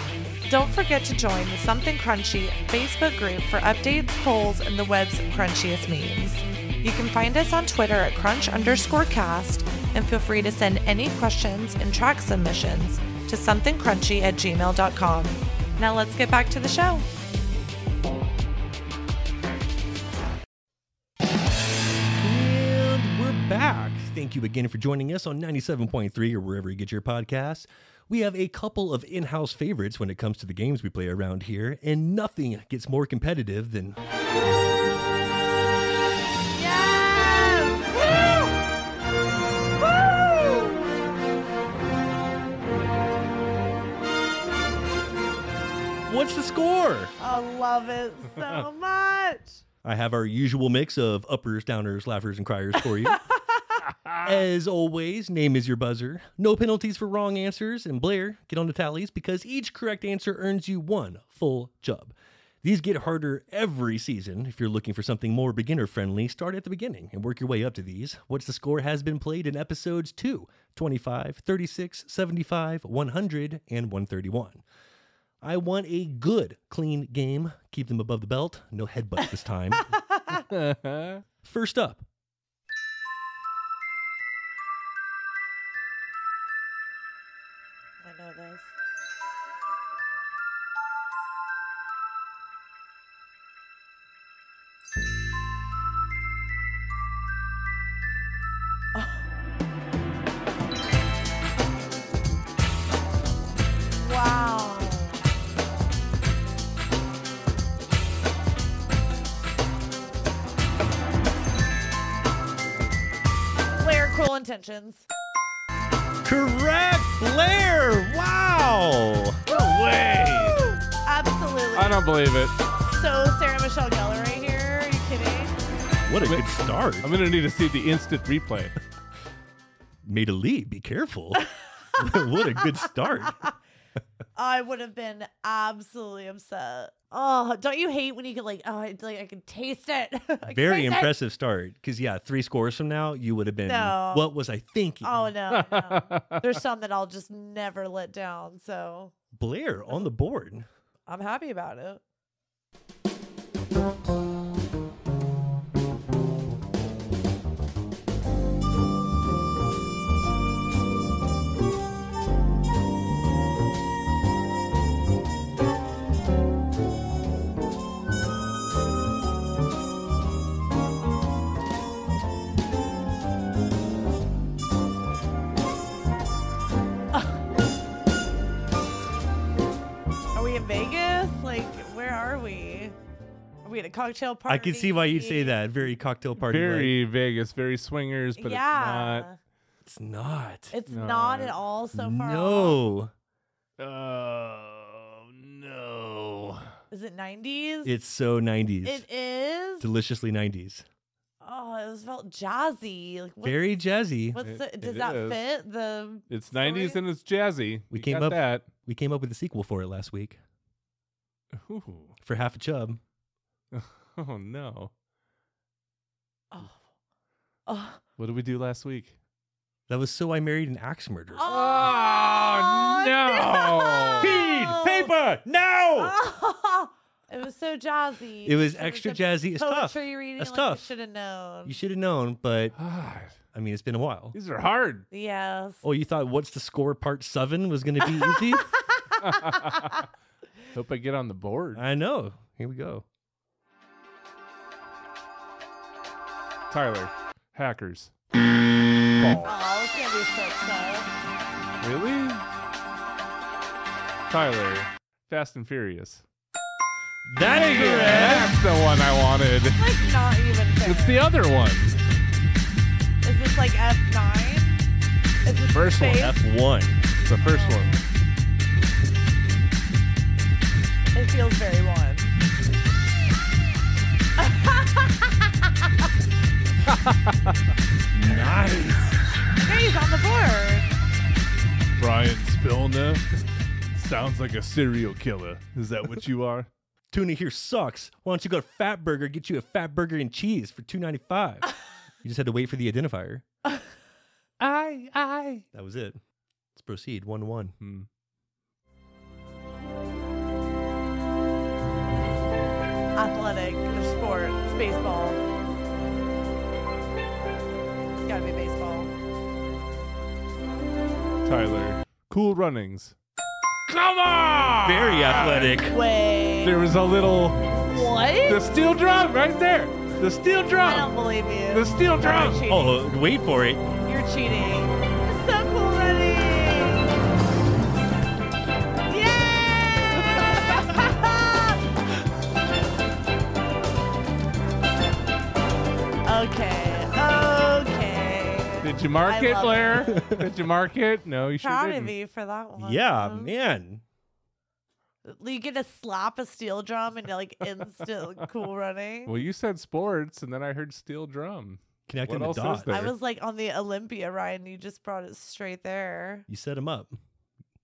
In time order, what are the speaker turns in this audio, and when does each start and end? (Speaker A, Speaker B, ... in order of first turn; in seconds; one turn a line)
Speaker A: 0.5-17.1
Speaker B: 22.2-34.0
Speaker A: 36.5-38.6
Speaker A: 39.8-41.0
Speaker B: 46.1-47.1
Speaker A: 47.2-49.6
Speaker B: 49.8-53.2
Speaker A: 53.0-53.8
Speaker B: 54.2-74.6
Speaker B: 75.4-79.9
Speaker A: 79.9-80.4
Speaker C: 80.5-81.2
Speaker B: 81.4-82.0
Speaker A: 88.0-88.7
Speaker A: 98.9-99.2
Speaker A: 103.9-105.2
Speaker A: 113.7-115.1
Speaker B: 116.2-119.4
Speaker C: 119.5-120.7
Speaker A: 120.5-122.0
Speaker C: 121.7-122.6
Speaker A: 122.8-125.6
Speaker B: 126.0-127.1
Speaker C: 127.0-128.7
Speaker B: 130.0-133.4
Speaker A: 134.3-141.1
Speaker B: 140.5-145.3
Speaker A: 143.7-144.3
Speaker A: 145.0-149.1
Speaker C: 145.5-146.4
Speaker B: 149.3-150.7
Speaker A: 151.1-152.0
Speaker A: 180.3-182.9
Speaker A: 183.6-185.6
Speaker B: 184.5-186.9
Speaker C: 186.4-189.3
Speaker A: 188.4-189.4
Speaker B: 189.8-190.7
Speaker A: 190.7-192.8
Speaker C: 190.9-191.6
Speaker B: 191.9-193.1
Speaker C: 193.8-196.7
Speaker A: 196.9-197.9
Speaker B: 197.8-199.0
Speaker A: 198.8-199.9
Speaker B: 199.8-200.8
Speaker A: 201.4-203.8
Speaker B: 203.4-204.4
Speaker A: 204.3-207.0
Speaker C: 204.4-205.4
Speaker C: 206.3-208.7
Speaker B: 207.9-210.4
Speaker C: 211.6-212.1
Speaker B: 212.2-213.0
Speaker C: 213.7-214.9
Speaker A: 216.5-216.8
Speaker A: 217.7-218.0
Speaker C: 218.2-219.1
Speaker B: 219.9-221.5
Speaker A: 221.3-225.1
Speaker C: 221.4-224.3
Speaker B: 224.2-226.1
Speaker A: 226.0-231.8
Speaker B: 228.4-230.9
Speaker B: 231.6-232.8
Speaker C: 232.8-233.4
Speaker B: 233.5-234.3
Speaker C: 234.3-235.1
Speaker A: 235.1-235.8
Speaker B: 235.8-238.7
Speaker A: 238.9-239.9
Speaker C: 239.2-240.0
Speaker C: 240.7-241.8
Speaker B: 241.7-243.0
Speaker C: 246.7-248.1
Speaker C: 249.2-249.5
Speaker A: 249.4-251.1
Speaker C: 251.8-252.4
Speaker C: 254.3-256.2
Speaker B: 257.2-258.5
Speaker C: 257.4-259.8
Speaker A: 257.8-258.4
Speaker A: 259.8-261.2
Speaker C: 260.8-262.0
Speaker A: 263.2-264.9
Speaker A: 265.4-266.3
Speaker C: 265.7-266.3
Speaker B: 266.0-267.0
Speaker C: 267.2-267.9
Speaker A: 267.3-268.1
Speaker A: 271.1-272.3
Speaker A: 274.4-275.4
Speaker C: 276.9-277.3
Speaker B: 278.1-279.2
Speaker A: 279.6-281.0
Speaker C: 282.0-283.2
Speaker C: 283.9-286.7
Speaker B: 287.1-293.4
Speaker C: 294.6-295.6
Speaker B: 295.7-296.2
Speaker B: 296.7-297.7
Speaker C: 297.8-298.1
Speaker A: 303.1-305.4
Speaker A: 308.2-309.1
Speaker C: 311.4-313.1
Speaker C: 313.9-315.8
Speaker B: 314.8-315.9
Speaker A: 315.3-316.8
Speaker C: 316.6-321.1
Speaker A: 317.8-318.7
Speaker A: 320.8-323.0
Speaker C: 321.7-322.6
Speaker B: 322.6-323.9
Speaker A: 324.0-327.1
Speaker A: 329.1-331.8
Speaker A: 336.2-340.2
Speaker C: 338.8-342.1
Speaker B: 340.1-340.5
Speaker A: 341.6-343.5
Speaker B: 342.8-344.0
Speaker A: 345.2-349.3
Speaker C: 349.2-353.1
Speaker B: 352.1-353.1
Speaker A: 352.9-356.4
Speaker B: 356.5-357.1